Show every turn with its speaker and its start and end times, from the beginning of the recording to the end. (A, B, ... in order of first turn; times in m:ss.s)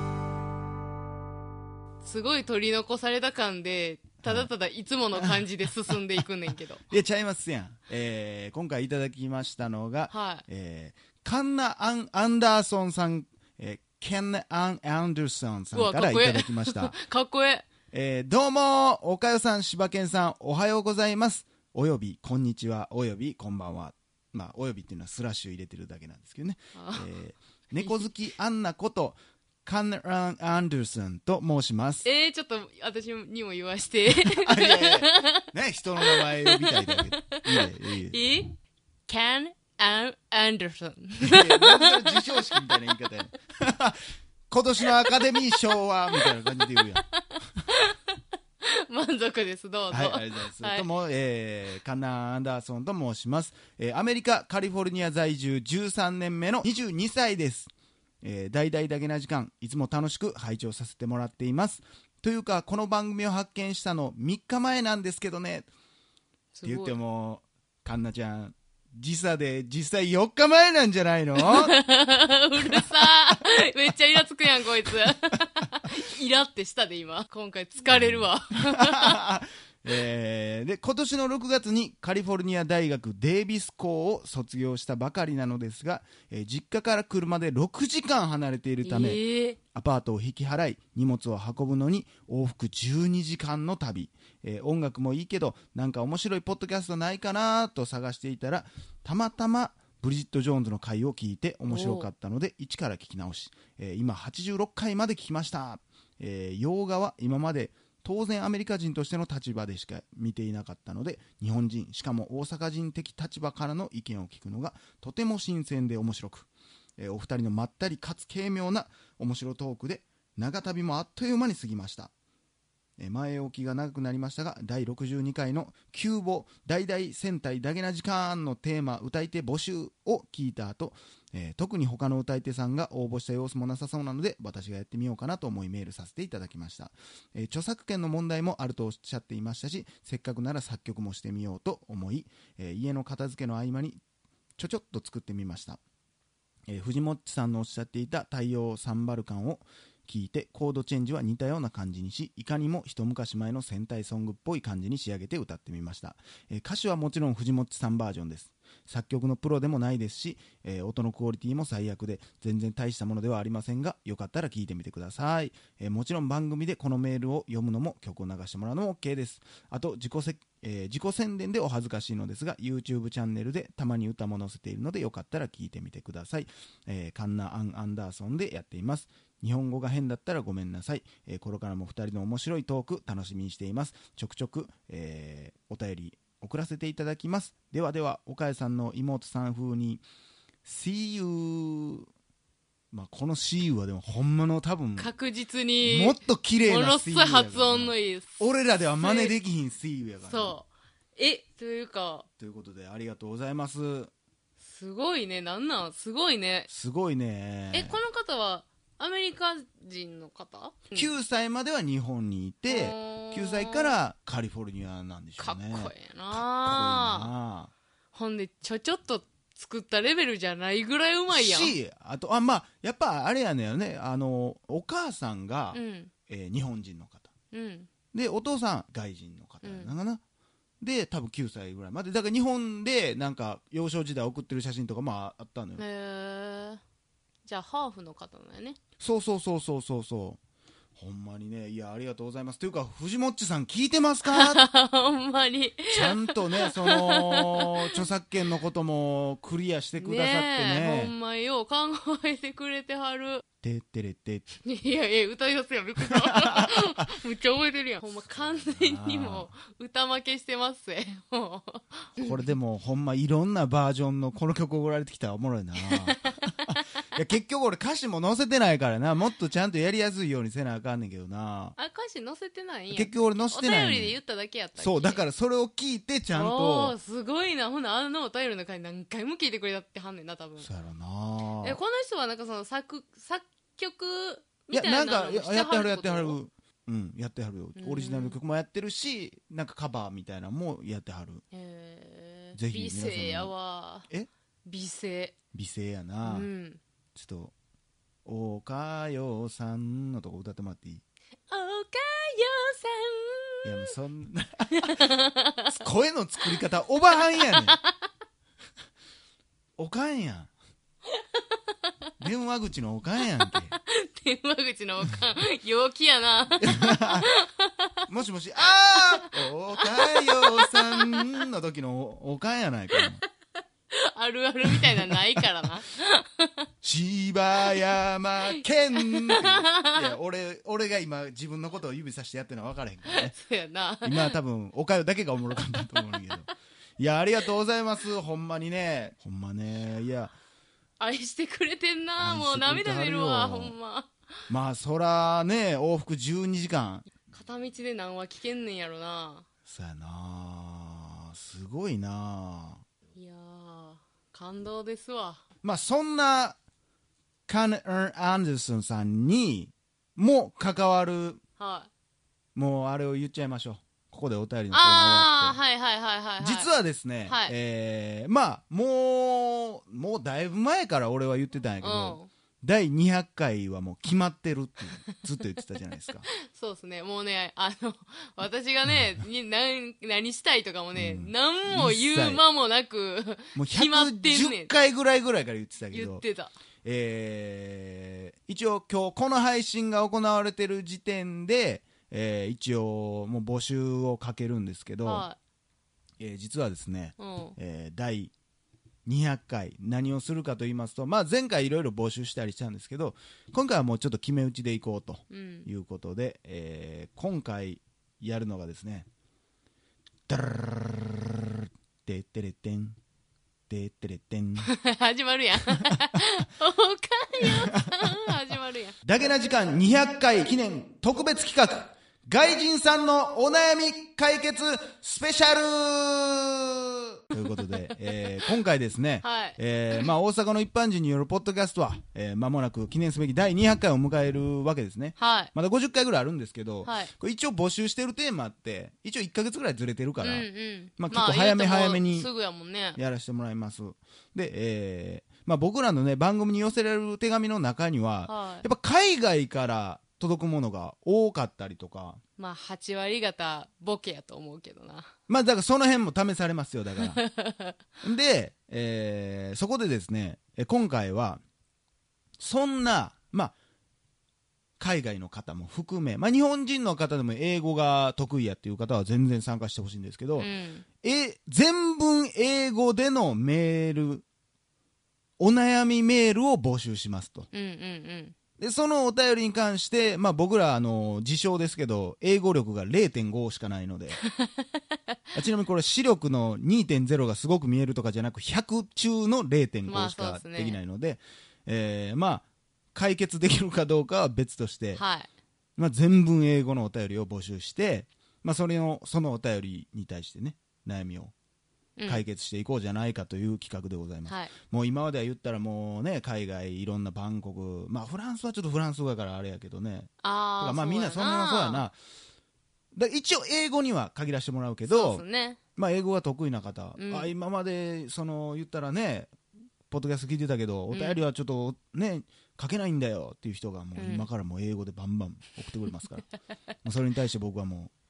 0:02.0-0:06.8 A
0:04.2-0:04.5 B
0:05.1-0:05.4 B
0:06.9-0:16.9 B
0:10.1-0:10.4 A
0:15.7-0:17.7 A
0:17.9-0:32.1 B
0:26.7-0:27.1 A
0:32.0-0:35.4 A
0:34.1-0:38.2 B
0:36.0-0:42.9 A
0:41.2-0:47.1 B
0:44.8-0:47.0 A
0:47.7-0:48.0 A
0:48.6-0:50.9 A
0:49.9-0:57.7 B
0:58.2-1:05.7 B
1:06.6-1:06.9 A
1:06.6-1:11.8 B
1:11.4-1:19.2 A
1:17.9-1:29.2 B
1:28.8-1:29.6 A
1:29.7-2:02.1 B
1:41.7-1:42.1 A
2:03.0-2:24.0 B
2:24.6-2:25.8 B
2:26.7-3:10.0 B
3:10.6-3:12.1 B
3:12.9-3:15.1 B
3:15.0-3:18.4 A
3:15.8-3:20.6 B
3:19.0-3:19.4 A
3:20.2-3:22.3 A
3:22.4-3:24.1 B
3:24.6-3:26.7 A
3:26.7-3:28.0 B
3:27.7-3:31.1 A
3:30.9-3:37.7 B
3:32.7-3:34.0 A
3:35.4-3:37.3 A
3:38.1-3:41.8 A
3:41.3-3:47.3 B
3:45.7-3:46.1 A
3:47.5-3:47.9 A
3:48.1-3:50.2 B
3:49.6-3:49.9 A
3:50.8-3:55.8 B
3:55.8-3:56.8 A
3:57.4-3:58.8 A
3:59.0-4:00.4 B
4:01.0-4:04.7 B
4:04.3-4:08.0 A
4:05.9-4:11.1 B
4:10.0-4:13.4 A
4:13.6-4:14.4 B
4:14.6-4:22.3 A
4:16.4-4:16.9 B
4:18.3-4:19.5 B
4:22.2-4:31.8 B
4:25.8-4:26.8 A
4:31.8-4:35.2 A
4:32.9-4:34.2 B
4:34.8-4:37.0 B
4:36.3-4:40.7 A
4:40.6-4:41.8 B
4:41.6-4:46.4 A
4:44.7-4:51.4 B
4:47.8-4:48.4 A
4:51.5-4:54.1 A
4:52.6-4:53.5 B
4:54.6-4:55.4 A
4:55.5-4:56.5 B
4:56.2-4:56.8 A
4:57.1-4:57.5 B
4:58.2-5:01.0 B
5:01.5-5:03.9 A
5:03.6-5:05.1 B
5:04.8-5:05.8 A
5:05.8-5:07.8 B
5:07.4-5:08.0 A
5:09.8-5:10.5 B
5:12.2-5:13.8 B
5:13.4-5:18.0 A
5:16.6-5:17.3 B
5:18.1-5:23.2 B
5:18.9-5:21.4 A
5:23.9-5:26.7 A
5:25.1-5:25.4 B
5:26.8-5:33.4 B
5:28.9-5:30.1 A
5:33.1-5:34.3 A
5:34.0-5:40.4 B
5:35.8-5:36.4 A
5:41.0-5:44.1 A
5:42.2-5:43.8 B
5:44.5-5:47.1 B
5:47.3-5:49.4 A
5:49.7-5:52.8 B
5:53.2-5:55.4 A
5:55.6-5:56.6 B
5:57.5-6:01.4 B
6:01.6-6:01.9 A
6:02.6-6:05.6 B
6:04.7-6:06.7 A
6:06.4-6:16.3 B
6:07.2-6:07.5 A
6:11.8-6:12.3 A
6:16.3-6:24.7 A
6:20.9-6:22.4 B
6:23.5-6:26.2 B
6:25.9-6:26.5 A
6:26.8-6:35.3 B
6:35.0-6:35.4 A
6:36.2-6:38.3 B
6:37.2-6:37.6 A
6:39.1-6:49.1 B
6:45.3-6:45.7 A
6:50.3-6:53.0 B
6:53.7-6:54.7 B
6:54.6-6:58.9 A
6:57.4-6:58.2 B
6:59.0-7:22.3 B
7:07.4-7:07.9 A
7:09.2-7:10.1 A
7:15.2-7:15.5 A
7:16.8-7:17.1 A
7:20.2-7:23.0 A
7:23.0-7:32.2 B
7:28.3-7:28.7 A
7:32.4-7:35.1 A
7:35.3-7:37.2 B
7:37.0-7:37.8 A
7:38.0-7:41.4 B
7:42.4-7:43.5 B
7:44.8-7:54.2 B
7:50.4-7:50.8 A
7:55.4-7:57.5 B
7:57.5-7:58.3 A
7:58.6-8:04.2 B
8:04.3-8:04.6 A
8:05.3-8:15.0 B
8:09.9-8:10.8 A
8:14.9-8:15.3 A
8:15.8-8:21.3 B
8:22.0-8:22.2 A
8:22.1-8:32.0 B
8:24.3-8:24.5 A
8:30.2-8:31.8 A
8:32.9-8:35.2 B
8:34.9-8:35.6 A
8:35.8-8:39.4 B
8:37.0-8:37.3 A
8:39.9-8:46.3 B
8:40.9-8:41.2 A
8:44.0-8:44.3 A
8:46.8-8:47.9 B